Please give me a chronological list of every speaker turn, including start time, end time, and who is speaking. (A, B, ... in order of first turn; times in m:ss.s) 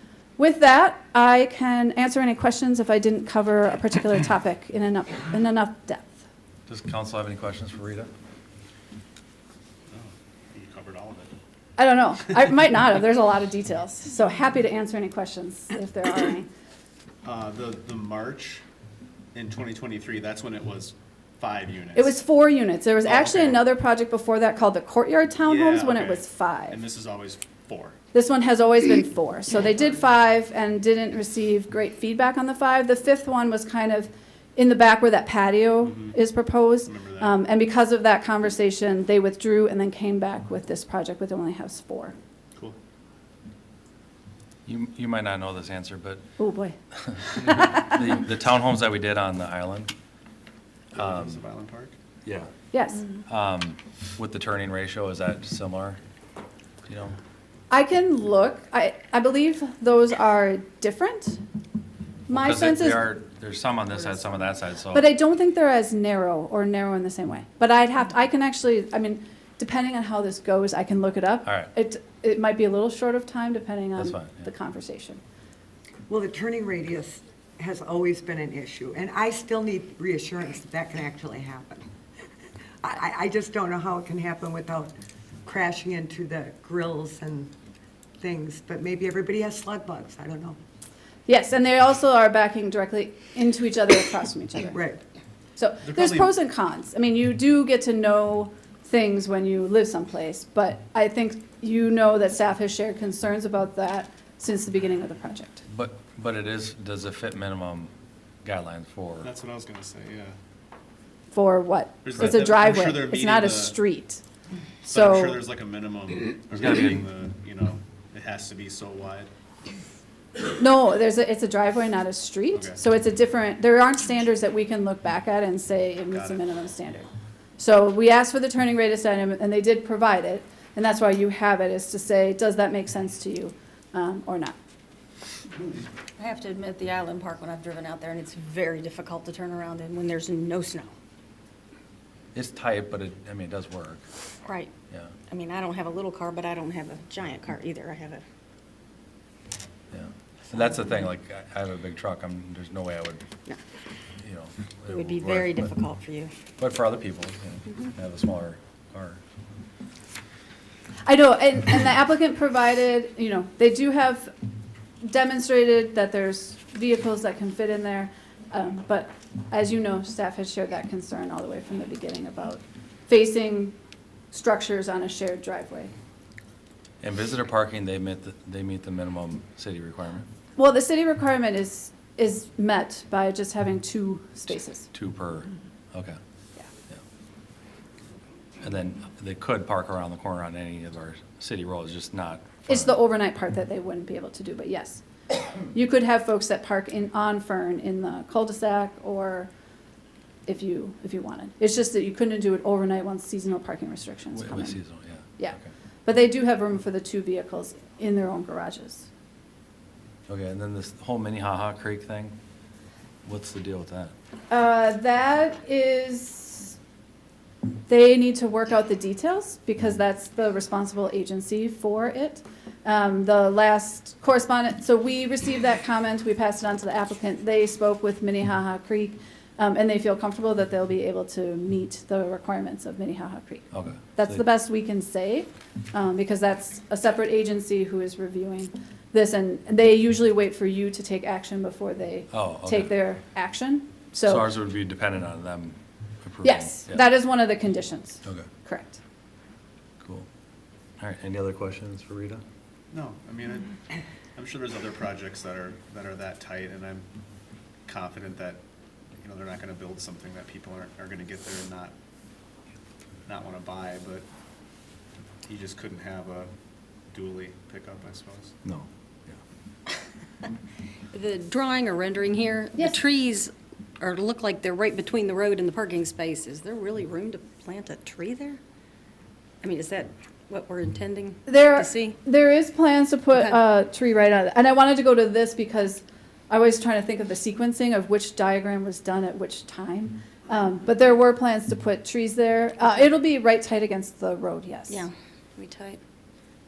0:00.4-0:06.3 A
0:06.7-0:08.1 B
0:09.9-0:11.3 C
0:11.8-0:16.5 A
0:17.2-0:18.6 C
0:19.3-0:22.2 C
0:22.0-0:26.8 A
0:23.0-0:23.7 C
0:25.4-0:28.0 C
0:28.1-0:42.2 A
0:35.8-0:36.2 C
0:36.8-0:37.4 C
0:44.7-0:46.2 B
0:46.4-0:46.8 A
0:47.1-0:49.9 B
0:47.4-0:48.0 A
0:50.9-0:52.0 C
0:51.0-0:51.4 B
0:52.2-0:52.5 B
0:52.7-0:53.0 A
0:53.3-0:56.0 B
0:56.9-0:57.2 B
0:57.7-1:01.4 A
1:02.3-1:03.0 A
1:02.3-1:05.1 B
1:04.9-1:15.2 A
1:11.4-1:11.7 B
1:14.0-1:14.5 B
1:16.1-1:21.9 D
1:22.8-1:27.5 D
1:28.2-1:30.6 D
1:31.3-1:34.8 A
1:34.7-1:35.0 D
1:35.6-1:45.6 A
1:35.8-1:36.3 C
1:45.7-1:47.9 B
1:48.4-1:49.3 B
1:49.2-1:50.4 C
1:51.3-1:54.2 A
1:52.0-1:53.8 C
1:54.8-1:55.4 A
1:54.8-1:59.3 C
1:56.5-1:57.0 B
2:00.6-2:14.6 A
2:02.5-2:02.8 C
2:06.1-2:06.5 C
2:16.2-2:20.9 E
2:22.3-2:24.0 B
2:24.4-2:24.7 E
2:25.3-2:28.2 E
2:29.9-2:33.2 B
2:34.2-2:35.7 B
2:34.9-2:36.3 E
2:36.6-2:39.2 B
2:41.0-2:44.3 A
2:45.0-2:53.8 A
2:54.3-2:55.9 A
2:57.0-3:00.3 B
3:00.6-3:04.9 A
3:04.9-3:06.2 B
3:08.6-3:13.0 B
3:12.7-3:15.0 A
3:15.7-3:19.5 A
3:20.5-3:24.8 A
3:24.4-3:25.7 B
3:25.4-3:29.1 A
3:30.3-3:32.4 B
3:33.2-3:34.1 B
3:34.5-3:36.8 A
3:37.9-4:04.5 A
3:53.7-3:54.4 B
4:02.3-4:02.9 B
4:04.2-4:07.1 B
4:06.4-4:09.0 A
4:10.0-4:10.3 B
4:11.0-4:12.4 B
4:12.9-4:13.8 C
4:14.4-4:17.1 C
4:17.9-4:18.6 C
4:19.2-4:22.0 C
4:23.3-4:24.3 C
4:25.4-4:26.5 C
4:27.1-4:28.6 C
4:28.6-4:29.4 B
4:31.1-4:38.6 E
4:39.6-4:42.2 E
4:41.5-4:55.1 A
4:43.4-4:43.6 E
4:54.9-4:56.0 E